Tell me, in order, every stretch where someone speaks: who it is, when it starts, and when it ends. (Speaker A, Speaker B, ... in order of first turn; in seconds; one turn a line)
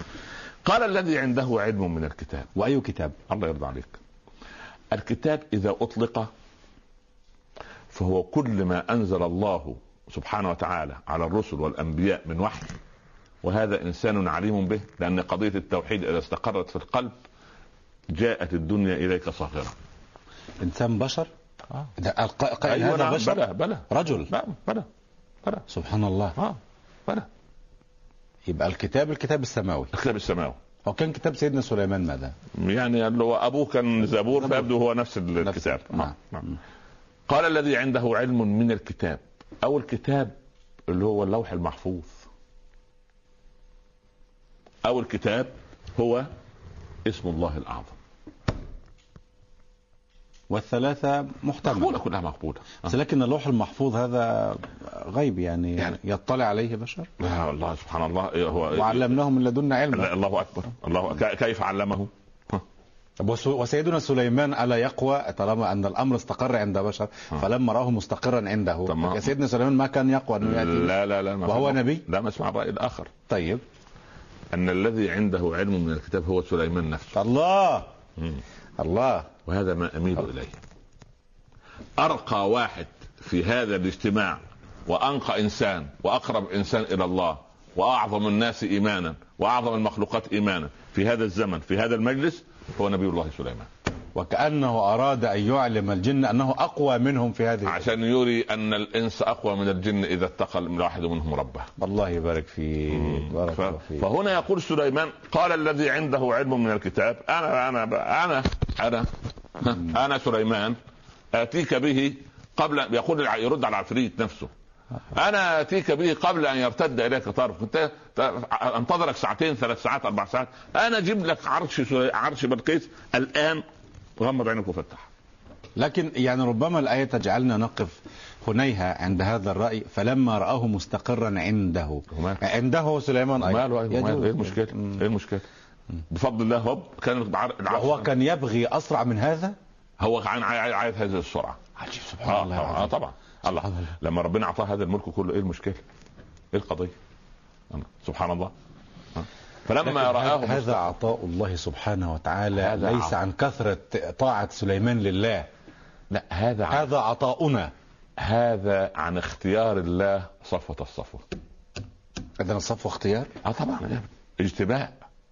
Speaker A: 0.6-2.5
Speaker B: 2.5-3.1
Speaker A: 3.3-4.0
Speaker A: 4.9-6.3
Speaker A: 7.9-12.8
Speaker A: 13.4-17.2
Speaker A: 18.1-19.7
Speaker B: 20.6-21.3
Speaker B: 22.0-24.3
Speaker A: 22.6-24.9
Speaker B: 25.7-26.4
Speaker A: 26.4-27.3
Speaker B: 28.5-29.9
Speaker A: 29.9-30.6
Speaker B: 30.9-32.3
Speaker A: 32.6-36.4
Speaker B: 34.4-34.7
Speaker B: 35.4-36.6
Speaker A: 37.3-40.3
Speaker A: 40.9-42.3
Speaker A: 44.8-46.3
Speaker A: 47.0-48.0
Speaker B: 50.5-52.0
Speaker A: 51.6-52.9
Speaker B: 52.8-57.1
Speaker A: 57.2-59.2
Speaker B: 58.7-60.1
Speaker A: 59.9-62.6
Speaker B: 63.2-70.9
Speaker A: 68.8-69.3
Speaker A: 70.4-73.1
Speaker B: 71.4-72.0
Speaker B: 73.3-73.6
Speaker A: 74.5-77.2
Speaker B: 77.1-77.9
Speaker B: 78.8-79.3
Speaker A: 79.5-80.6
Speaker A: 82.0-93.7
Speaker B: 94.1-97.8
Speaker A: 97.6-101.7
Speaker B: 101.8-104.0
Speaker A: 102.9-110.8
Speaker A: 111.3-114.5
Speaker A: 115.1-123.6
Speaker A: 124.2-125.1
Speaker B: 125.8-135.0
Speaker A: 132.1-132.4
Speaker A: 133.4-135.4
Speaker A: 136.1-138.1
Speaker B: 137.7-139.6
Speaker A: 140.0-141.6
Speaker B: 141.8-142.9
Speaker A: 142.2-145.8
Speaker B: 143.6-143.9
Speaker A: 146.5-146.9
Speaker A: 147.7-148.5
Speaker A: 149.1-150.9
Speaker B: 149.8-155.5
Speaker A: 152.5-153.2
Speaker A: 156.1-156.9
Speaker B: 156.7-157.7
Speaker A: 158.2-161.2
Speaker B: 162.4-163.3
Speaker A: 163.4-165.0